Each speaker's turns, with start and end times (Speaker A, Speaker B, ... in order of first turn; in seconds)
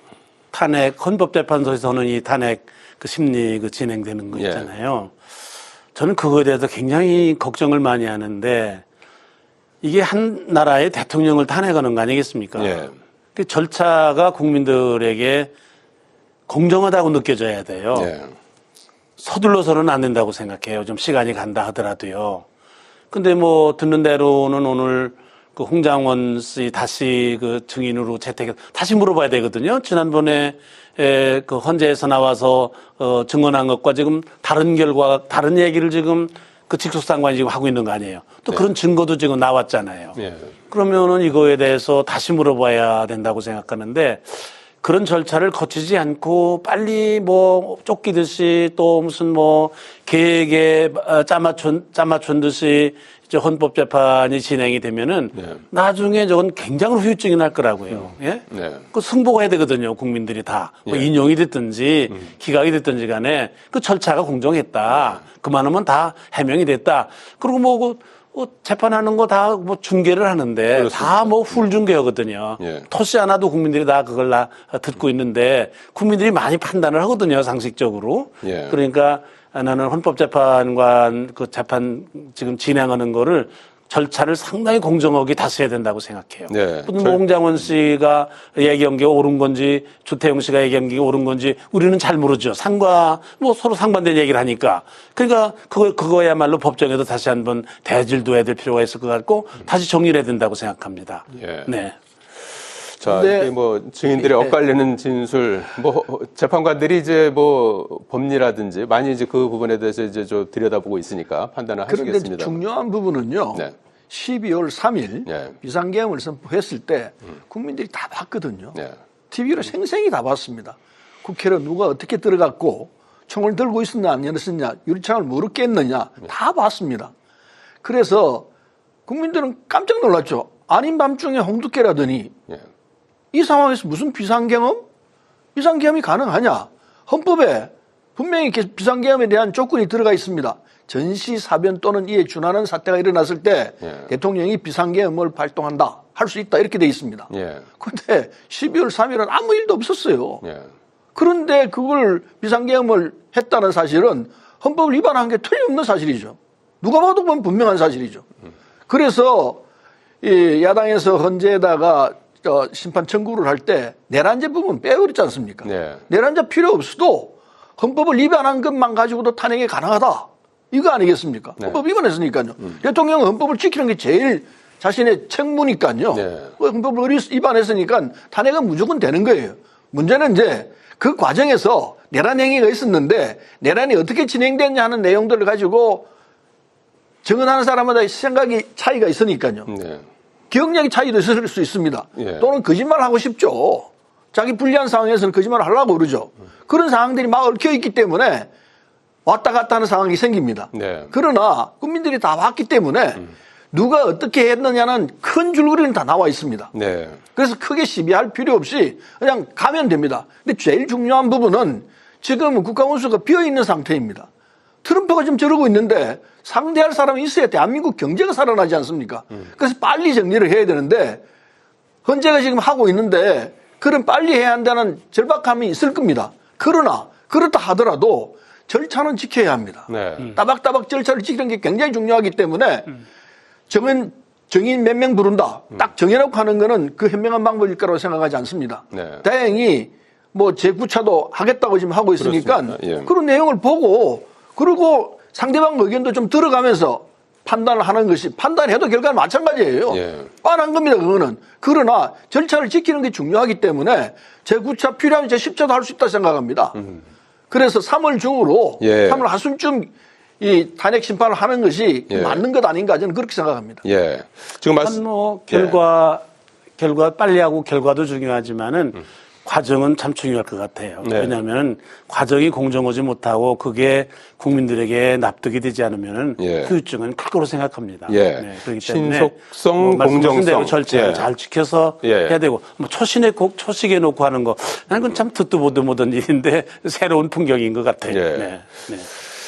Speaker A: 0.5-5.2, 5.9-8.8, 9.8-15.5, 16.5-18.1, 19.2-22.4, 23.1-40.2, 40.7-102.0, 264.8-266.2, 266.8-289.1
Speaker B: 4.3-4.7, 12.6-12.9, 17.9-18.3, 40.1-40.5, 55.3-55.6, 57.9-58.8, 64.9-65.2, 70.7-71.6, 72.6-72.9, 78.4-78.8, 86.5-87.2, 101.3-101.7, 103.0-112.6, 115.2-115.5, 143.8-144.1, 147.3-147.6, 150.4-150.7, 165.6-166.0, 176.1-176.5, 189.7-190.1, 192.2-192.5, 200.7-201.1, 206.7-207.2, 229.9-230.4, 238.9-239.2, 242.2-243.1, 249.9-250.3, 256.8-257.0, 258.8-259.2, 262.1-262.4, 263.8-265.8, 271.0-271.3, 276.4-276.7, 278.1-281.3, 282.0-282.4, 288.1-288.6
Speaker C: 103.0-103.5, 104.2-104.5, 111.9-118.8, 119.3-127.1, 127.8-128.4, 129.1-132.3, 133.3-134.8, 135.5-150.4, 151.1-158.2, 158.9-159.6, 160.2-186.1, 187.2-189.7, 190.5-198.5, 199.2-206.7, 207.3-214.3, 214.8-221.2, 222.0-233.0, 233.7-256.8, 257.5-263.8